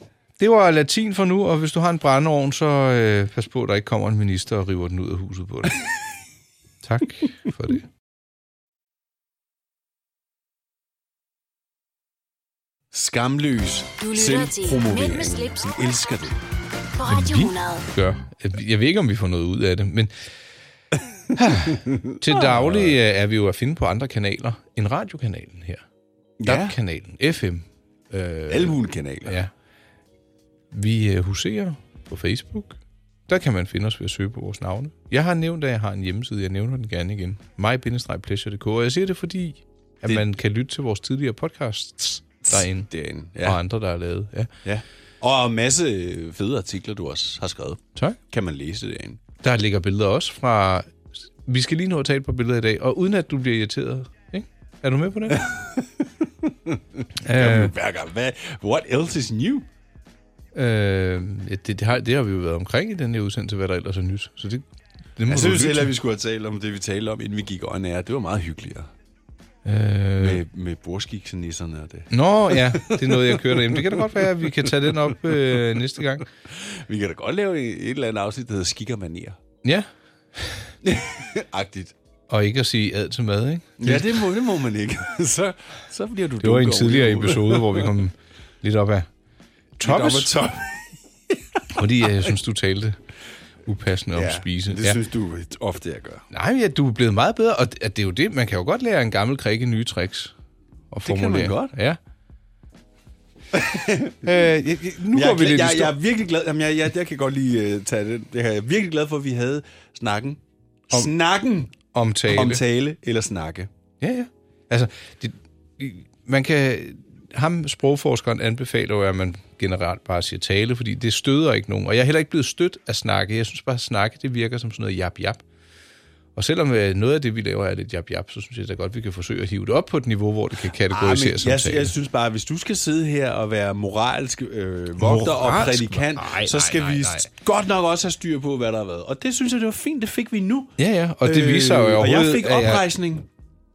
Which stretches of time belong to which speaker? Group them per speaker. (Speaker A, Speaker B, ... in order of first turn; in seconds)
Speaker A: 0.4-5.8, 6.8-7.8, 17.0-20.1, 21.4-25.8, 26.4-29.5, 30.7-42.9, 43.4-44.5, 49.4-50.9, 51.4-55.5, 57.2-57.7, 60.5-64.6, 65.2-65.9, 69.6-70.4, 72.1-76.3, 79.6-80.7, 82.3-84.2, 86.4-89.1, 89.8-90.3, 91.7-93.0, 93.7-95.0, 96.3-100.3, 100.9-102.0, 104.2-106.0, 111.9-112.6, 114.0-125.4, 126.3-131.9, 135.0-137.3, 140.8-142.8
Speaker B: 12.9-16.4, 21.7-23.0, 26.4-26.8, 28.5-29.4, 42.5-43.6, 44.6-49.2, 55.3-59.6, 65.3-68.9, 70.2-75.8, 76.5-79.4, 80.8-81.9, 83.8-88.0, 89.8-91.6, 94.1-96.2, 101.0-101.7, 103.5-104.4, 105.1-111.8, 112.3-113.7, 130.9-143.3
Speaker C: 14.0-15.7, 16.9-17.9